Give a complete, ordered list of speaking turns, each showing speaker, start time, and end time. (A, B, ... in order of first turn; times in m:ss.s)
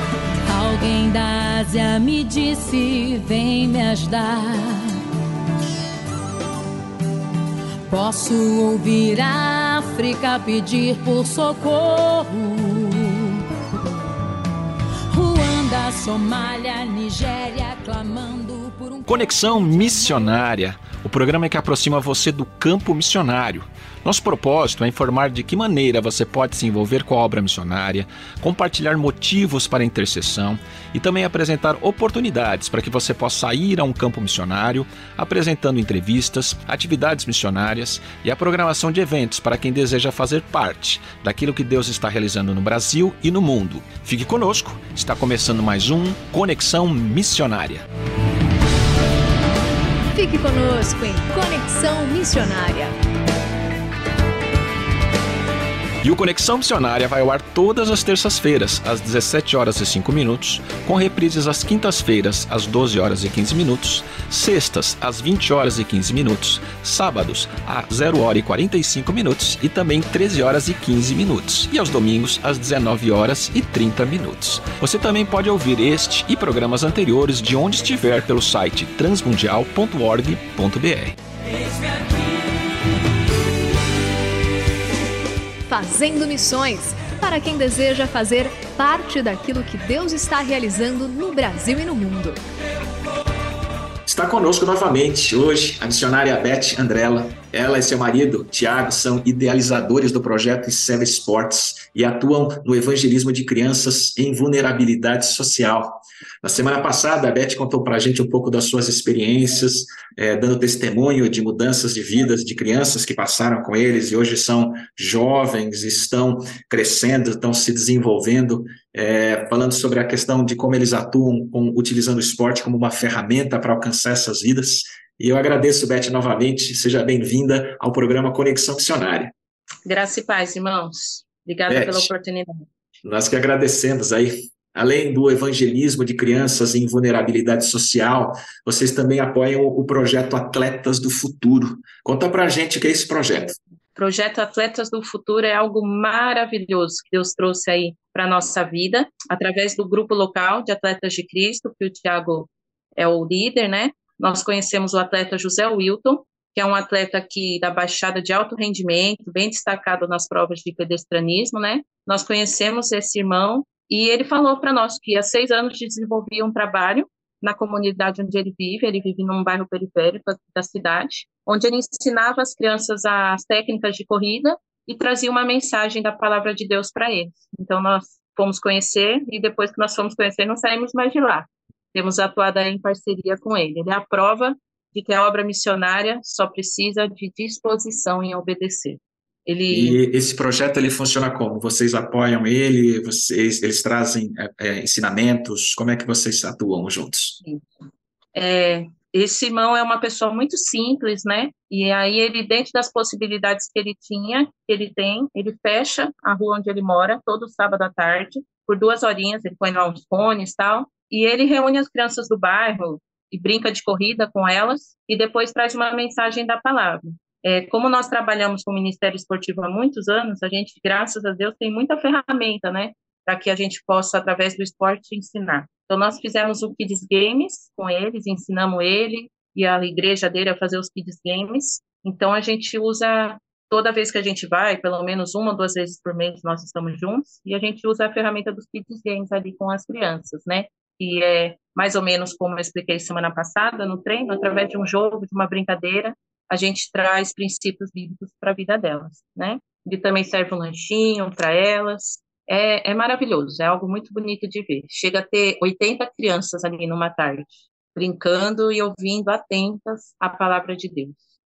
0:00.4-0:05.0 A
0:07.9-0:13.4 A
0:15.1-0:20.3 A
0:19.1-0:47.8 B
0:50.1-0:52.9 C
0:56.0-1:21.2 B
1:25.7-1:32.4 C
1:34.0-2:09.3 B
2:09.8-2:12.7 D
2:11.7-2:12.1 B
2:13.0-2:23.5 B
2:23.9-3:10.0 D
3:09.7-3:17.4 B
3:17.4-3:17.7 D
3:18.3-4:21.2 D